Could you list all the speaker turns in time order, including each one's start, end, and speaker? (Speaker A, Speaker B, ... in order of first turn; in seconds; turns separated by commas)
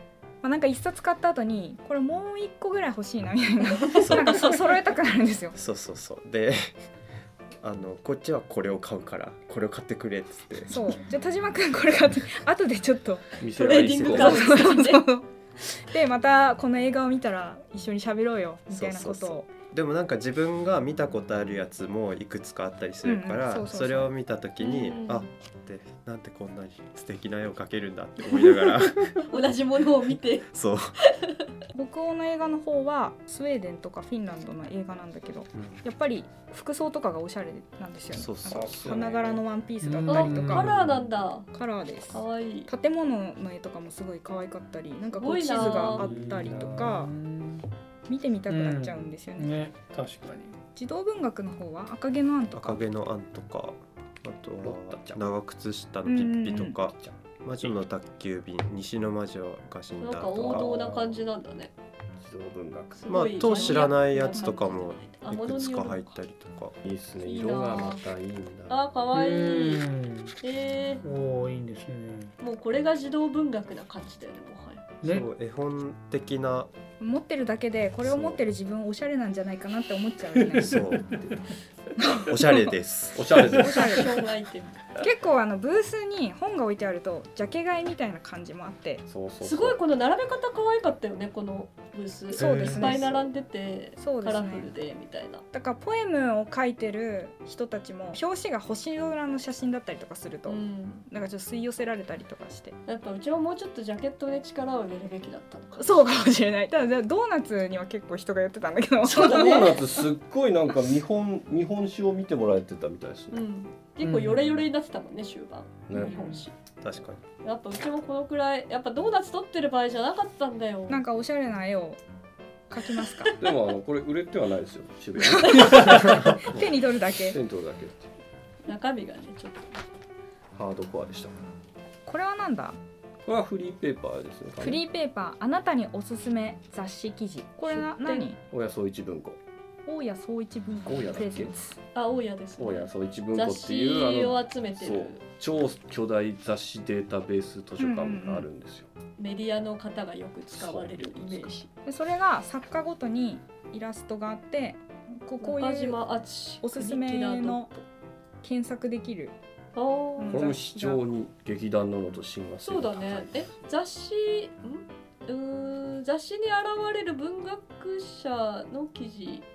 Speaker A: 0.4-5.5, Speaker B: 3.8-4.6, Speaker C: 3.9-4.6, Speaker C: 5.5-6.7, Speaker C: 7.6-10.8, Speaker A: 10.7-13.4, Speaker D: 13.4-14.6, Speaker B: 13.5-15.0, Speaker C: 13.8-14.4, Speaker A: 14.1-19.5, Speaker C: 18.7-29.4, Speaker A: 23.0-24.1, Speaker B: 24.6-25.3, Speaker B: 28.3-30.5, Speaker C: 30.5-31.0, Speaker A: 31.7-40.7, Speaker C: 35.5-35.8, Speaker C: 38.2-38.8, Speaker D: 38.3-39.4, Speaker E: 39.8-40.9, Speaker B: 40.1-41.5, Speaker D: 40.8-41.0, Speaker A: 41.5-47.1, Speaker B: 42.1-42.7, Speaker B: 45.1-46.1, Speaker D: 45.8-47.0, Speaker E: 46.0-47.7, Speaker A: 48.1-49.5, Speaker E: 48.5-50.6, Speaker A: 50.8-52.8, Speaker C: 52.5-60.8, Speaker D: 54.6-55.4, Speaker A: 56.0-56.8, Speaker D: 56.7-57.1, Speaker B: 60.0-61.7, Speaker D: 60.3-61.2, Speaker D: 62.2-63.7, Speaker B: 63.0-66.1, Speaker C: 63.1-66.7, Speaker A: 63.7-64.6, Speaker D: 66.8-68.8, Speaker B: 67.2-68.0, Speaker B: 68.7-69.8, Speaker E: 69.1-70.4, Speaker B: 70.4-71.0, Speaker E: 71.0-72.3, Speaker B: 72.4-74.9, Speaker E: 75.0-75.3, Speaker C: 75.0-76.7, Speaker A: 77.0-80.8, Speaker D: 78.0-78.4, Speaker E: 80.3-81.3, Speaker C: 80.5-81.2, Speaker A: 82.0-82.7, Speaker C: 82.2-83.4, Speaker D: 83.1-84.1, Speaker A: 83.5-84.2, Speaker B: 83.6-84.8, Speaker A: 85.0-89.0, Speaker D: 89.1-89.8, Speaker B: 89.4-95.4, Speaker A: 92.3-93.1, Speaker D: 92.6-93.3, Speaker A: 94.0-94.7, Speaker A: 95.5-102.8, Speaker B: 100.5-101.0, Speaker B: 102.8-106.1, Speaker A: 105.8-109.7, Speaker B: 109.0-109.8, Speaker D: 109.1-113.4, Speaker B: 113.3-116.5, Speaker E: 114.0-114.5, Speaker D: 115.9-116.3, Speaker A: 115.9-116.4, Speaker C: 116.8-117.2, Speaker B: 117.4-121.0, Speaker A: 120.9-122.0, Speaker A: 122.7-123.3, Speaker B: 123.2-123.5, Speaker D: 123.4-128.1, Speaker A: 125.2-127.4, Speaker C: 126.0-126.6, Speaker B: 128.7-129.8, Speaker D: 130.5-131.4, Speaker A: 132.1-132.8, Speaker D: 133.2-134.8, Speaker A: 134.6-138.4, Speaker B: 137.7-138.3, Speaker D: 138.5-139.4, Speaker A: 139.8-141.8, Speaker D: 140.8-141.5, Speaker B: 141.9-145.2, Speaker D: 142.6-148.9, Speaker A: 147.8-148.5, Speaker B: 149.2-151.7, Speaker D: 150.5-151.5, Speaker A: 151.8-156.0, Speaker B: 155.4-157.8, Speaker A: 156.6-157.7, Speaker A: 158.4-159.3, Speaker B: 159.7-160.5, Speaker A: 160.2-161.0, Speaker D: 160.3-163.5, Speaker B: 162.6-169.4